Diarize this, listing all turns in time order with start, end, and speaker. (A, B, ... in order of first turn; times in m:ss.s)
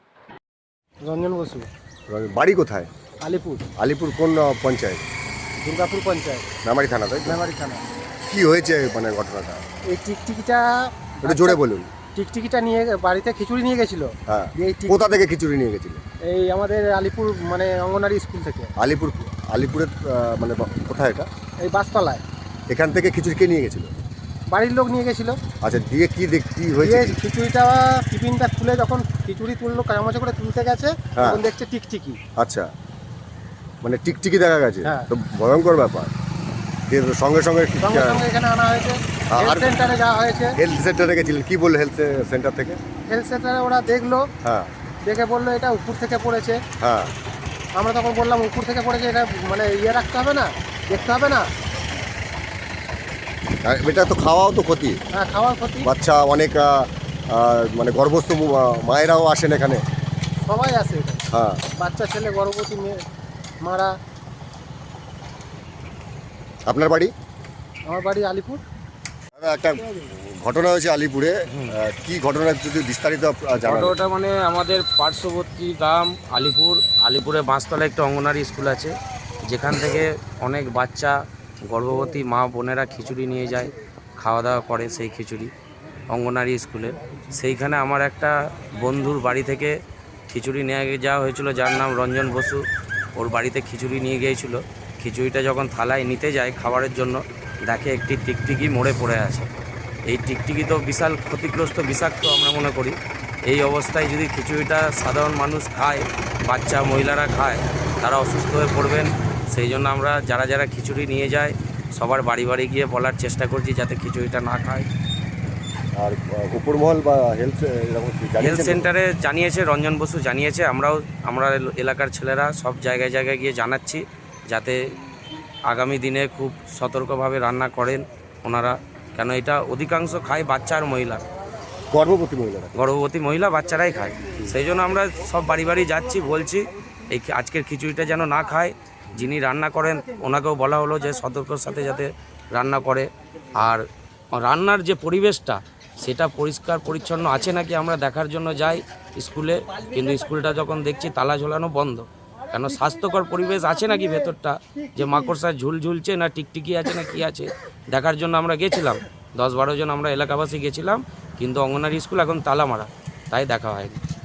0:01.0-0:01.6 A
0:02.1-0:02.9 B
0:03.2-0:03.7 A
0:03.8-0:05.0 B
0:05.6-0:06.5 A
0:06.6-0:07.4 B
0:07.2-0:07.8 A
0:08.3-0:09.6 B
0:09.9-0:11.6 A
0:11.2-0:11.9 B
0:12.2-0:15.1 A
0:14.3-0:16.0 B
0:16.3-0:18.7 A
0:18.8-0:21.3 B
0:21.6-0:22.2 A
0:22.7-0:23.9 B
0:24.5-0:25.4 A
0:25.6-0:27.2 B
0:26.8-0:32.2 A
0:31.2-0:31.4 B
0:32.4-0:32.7 B
0:33.8-0:36.1 B
0:36.9-0:38.2 B
0:37.8-0:40.6 A
0:39.3-0:39.7 B
0:40.6-0:42.8 B
0:43.1-0:44.2 A
0:44.4-0:44.7 B
0:45.0-0:46.6 A
0:46.8-0:47.1 B
0:47.8-0:51.5 A
0:53.6-0:55.0 B
0:55.1-0:55.9 A
0:55.8-0:59.8 B
1:00.4-1:01.2 A
1:01.3-1:01.6 B
1:01.8-1:03.0 A
1:03.6-1:03.9 A
1:06.7-1:07.1 B
1:07.9-1:08.6 A
1:09.3-1:14.0 B
1:13.6-1:18.9 C
1:19.5-1:21.2 C
1:21.7-1:25.5 C
1:26.1-1:29.7 C
1:30.3-1:32.6 C
1:33.2-1:39.5 C
1:40.1-1:43.0 C
1:43.5-1:54.9 C
1:56.0-1:58.9 B
1:58.4-2:04.8 C
2:05.7-2:11.2 C
2:11.9-2:12.7 B
2:12.8-2:23.1 C
2:23.6-2:23.8 C
2:24.4-2:44.0 C